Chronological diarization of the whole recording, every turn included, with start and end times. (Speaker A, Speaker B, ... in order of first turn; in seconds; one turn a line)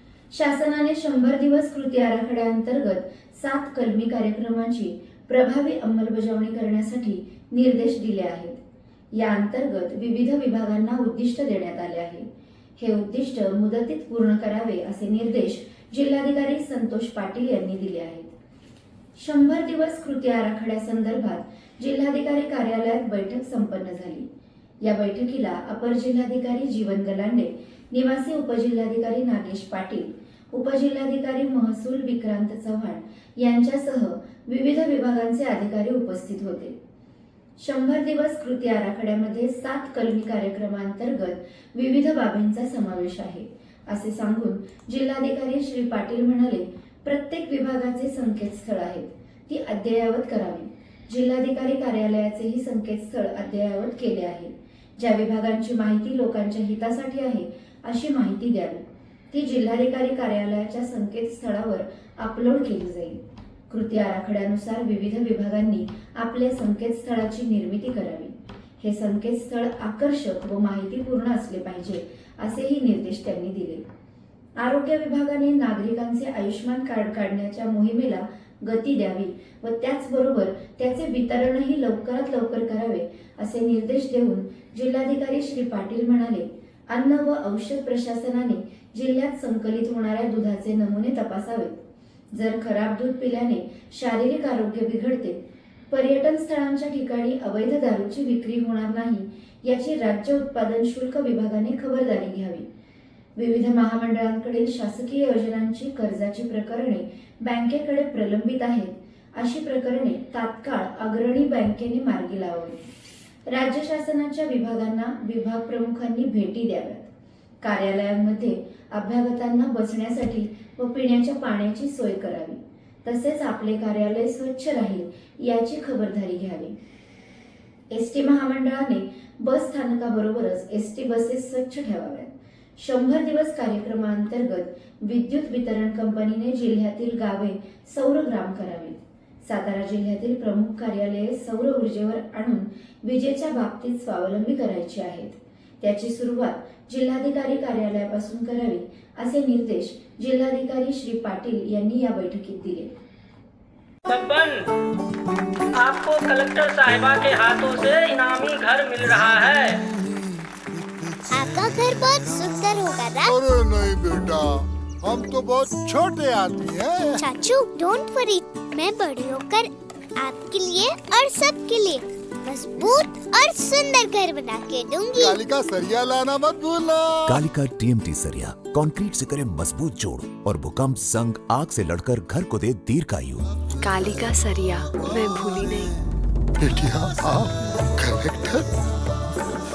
Speaker A: 0.3-8.6
Speaker A: 9.2-12.3
Speaker A: 12.8-18.3
Speaker A: 19.2-24.3
Speaker A: 24.8-36.8
Speaker A: 37.6-73.8
Speaker A: 74.6-91.8
Speaker A: 92.3-95.4
Speaker A: 95.9-102.7
Speaker A: 103.4-112.8
Speaker A: 113.5-117.1
Speaker A: 117.6-126.8
Speaker A: 127.9-152.9
Speaker B: 154.1-154.7
Speaker B: 155.8-159.8
Speaker C: 161.3-163.4
Speaker D: 163.2-167.2
Speaker C: 167.2-175.4
Speaker D: 175.2-177.3
Speaker E: 177.3-183.5
Speaker F: 183.8-185.9
Speaker D: 186.6-188.7